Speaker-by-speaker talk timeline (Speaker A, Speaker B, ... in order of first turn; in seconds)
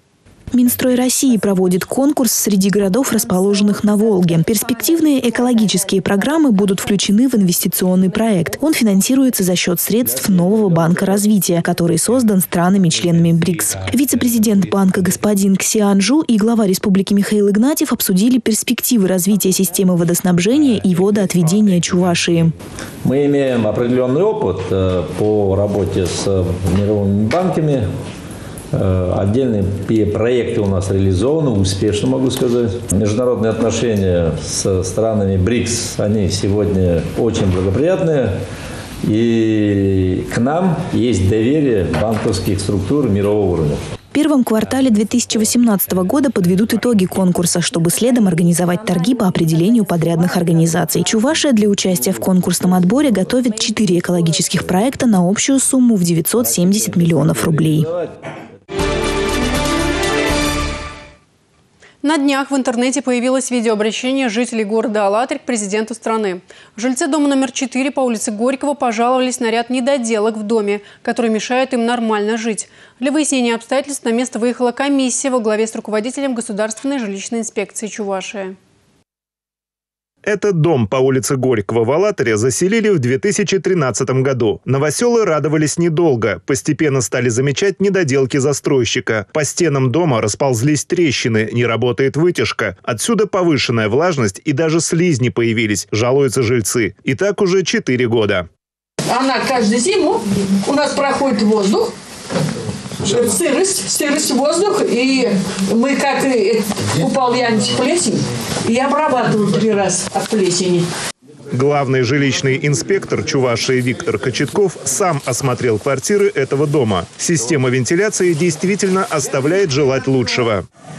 Speaker A: 0.5-22.5, 44.1-57.9
Speaker B: 23.0-27.9, 28.7-38.3, 39.0-43.8
Speaker C: 62.0-78.5
Speaker D: 80.2-98.5, 111.5-120.6
Speaker E: 99.1-101.9, 103.1-110.8